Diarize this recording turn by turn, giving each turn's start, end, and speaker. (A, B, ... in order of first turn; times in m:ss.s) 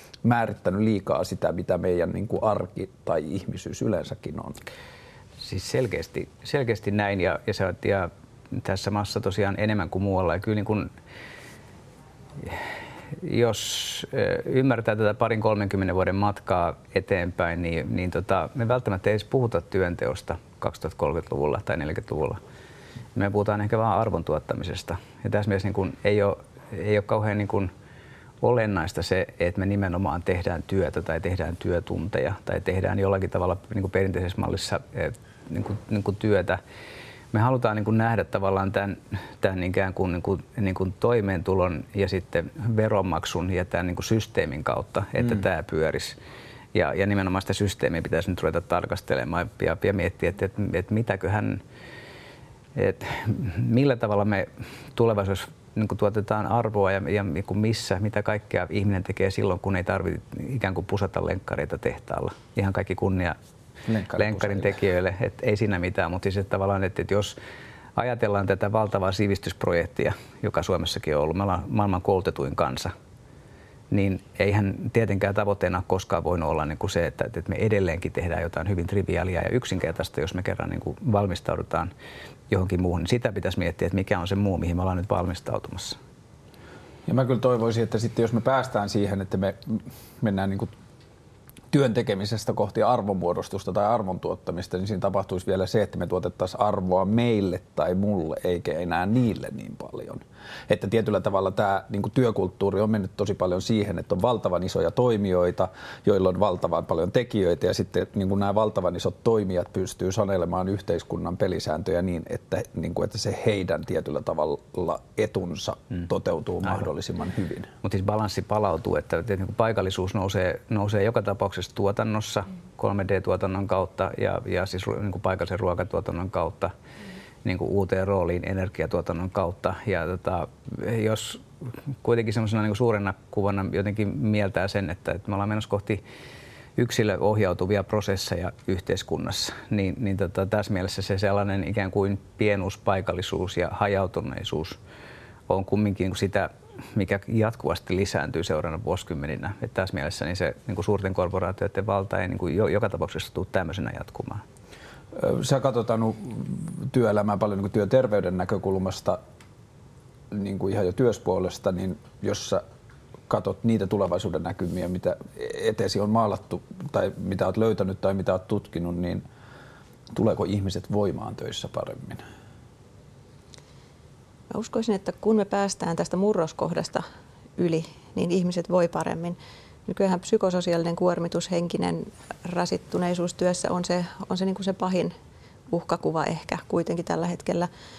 0:00.2-0:04.6 A
0:05.4-0:10.9 B
0:12.4-0:22.4 B
0:23.2-0:27.7 B
0:28.4-0:36.6 B
0:37.3-0:46.2 B
0:46.7-0:51.6 B
0:52.8-1:03.4 B
1:03.9-1:04.8 A
1:04.2-1:07.4 B
1:08.0-1:12.9 B
1:13.9-1:21.9 B
1:22.5-1:26.0 B
1:27.1-1:30.7 A
1:31.7-1:57.7 A
1:57.8-2:06.7 B
2:07.4-2:16.0 B
2:16.8-2:24.8 B
2:25.5-2:34.4 B
2:35.1-2:39.2 A
2:40.3-2:42.6 A
2:43.3-2:49.2 A
2:50.1-2:52.2 A
2:54.5-2:57.0 C
2:57.6-3:05.1 C
3:05.7-3:07.7 C